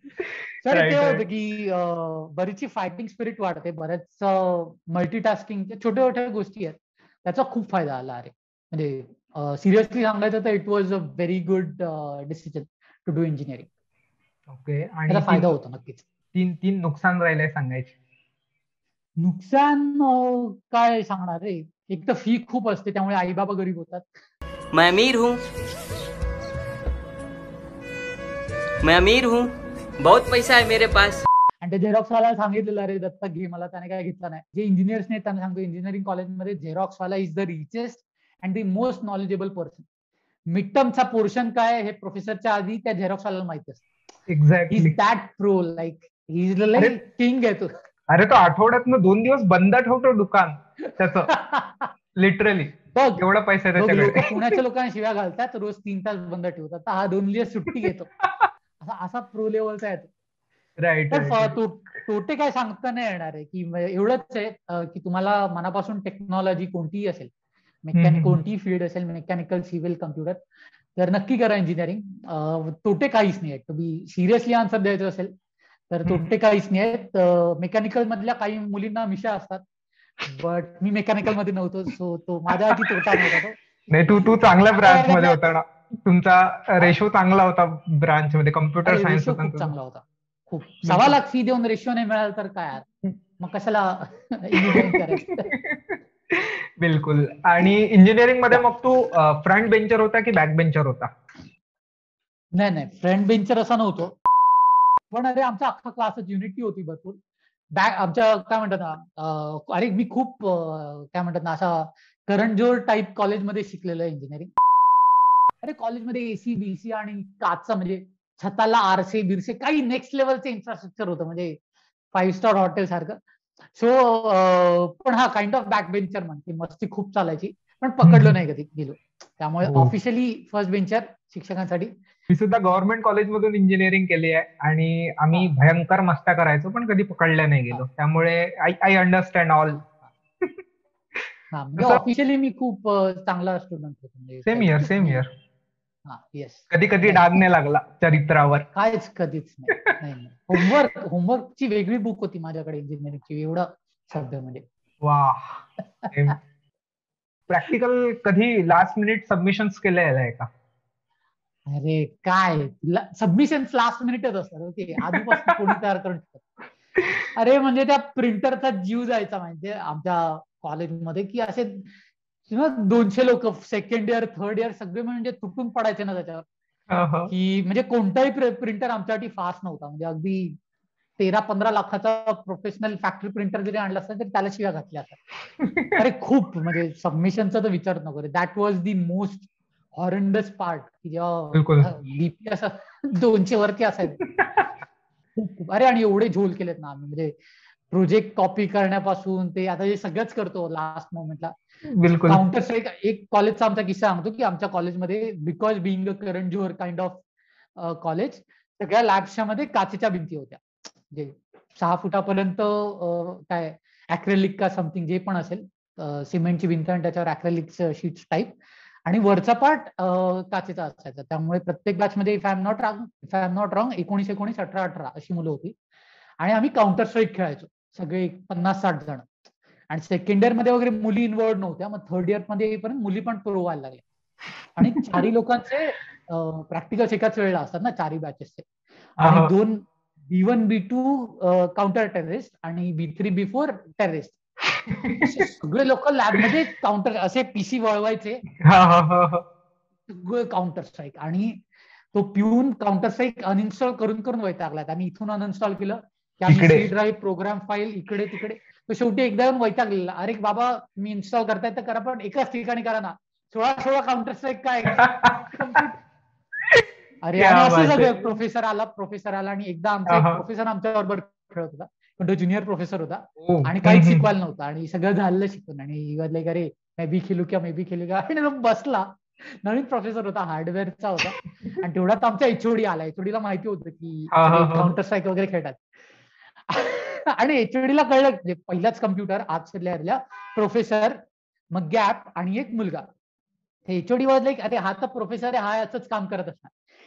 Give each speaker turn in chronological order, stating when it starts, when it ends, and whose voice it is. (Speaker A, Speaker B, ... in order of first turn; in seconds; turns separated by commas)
Speaker A: 0.2-1.2, Speaker B: 0.6-13.7, Speaker A: 14.5-15.5, Speaker B: 15.1-16.0, Speaker A: 16.3-17.9, Speaker B: 19.2-24.1, Speaker C: 24.7-25.4, Speaker C: 28.8-31.2, Speaker B: 31.6-39.9, Speaker B: 40.5-43.9, Speaker A: 44.3-45.0, Speaker B: 44.7-47.7, Speaker A: 48.1-51.3, Speaker B: 51.3-51.9, Speaker A: 52.2-54.3, Speaker B: 52.9-53.2, Speaker B: 53.8-58.1, Speaker A: 57.8-58.5, Speaker B: 58.8-60.1, Speaker A: 60.8-61.5, Speaker B: 61.1-67.3, Speaker B: 67.8-70.4, Speaker A: 68.0-68.4, Speaker B: 71.0-75.3, Speaker B: 75.9-79.6, Speaker A: 76.1-76.3, Speaker B: 80.3-83.5, Speaker A: 82.7-83.3, Speaker A: 83.9-89.7, Speaker B: 84.7-85.4, Speaker B: 88.8-92.8, Speaker A: 90.9-91.2, Speaker B: 93.4-95.5, Speaker A: 94.6-101.1, Speaker B: 102.5-104.2, Speaker B: 105.1-107.2, Speaker B: 107.8-114.5, Speaker B: 115.6-121.6, Speaker B: 122.1-123.2, Speaker B: 123.8-131.9, Speaker A: 128.0-128.3, Speaker A: 129.6-129.9, Speaker A: 132.3-139.8, Speaker B: 139.7-140.0, Speaker B: 141.5-145.2, Speaker A: 141.8-142.0, Speaker A: 144.5-145.3, Speaker B: 146.1-147.3, Speaker A: 146.7-148.7, Speaker B: 148.7-154.6, Speaker A: 155.0-156.4, Speaker B: 156.0-156.3, Speaker A: 157.5-160.5, Speaker B: 161.7-166.4, Speaker A: 165.1-165.6, Speaker B: 167.3-171.9, Speaker B: 172.5-176.4, Speaker A: 176.9-177.3, Speaker B: 177.3-180.6, Speaker B: 181.2-185.2, Speaker A: 185.6-185.9, Speaker B: 186.0-194.2, Speaker A: 191.5-191.9, Speaker A: 194.2-194.6, Speaker B: 195.4-197.3, Speaker B: 197.9-201.5, Speaker A: 201.9-202.4, Speaker B: 202.3-207.2, Speaker B: 207.8-225.8, Speaker B: 226.4-229.3, Speaker B: 229.9-234.0, Speaker B: 234.8-238.7, Speaker A: 234.9-235.2, Speaker B: 239.2-244.4, Speaker A: 239.2-239.5, Speaker A: 244.9-245.2, Speaker B: 245.2-248.4, Speaker A: 248.7-249.4, Speaker B: 250.1-251.6, Speaker B: 252.1-266.0, Speaker A: 256.5-256.9, Speaker A: 264.9-265.8, Speaker B: 267.2-285.9, Speaker A: 267.4-268.4, Speaker A: 270.1-270.4, Speaker A: 273.4-274.3, Speaker A: 284.3-284.9, Speaker B: 286.7-291.2, Speaker B: 291.7-293.0, Speaker B: 293.9-296.7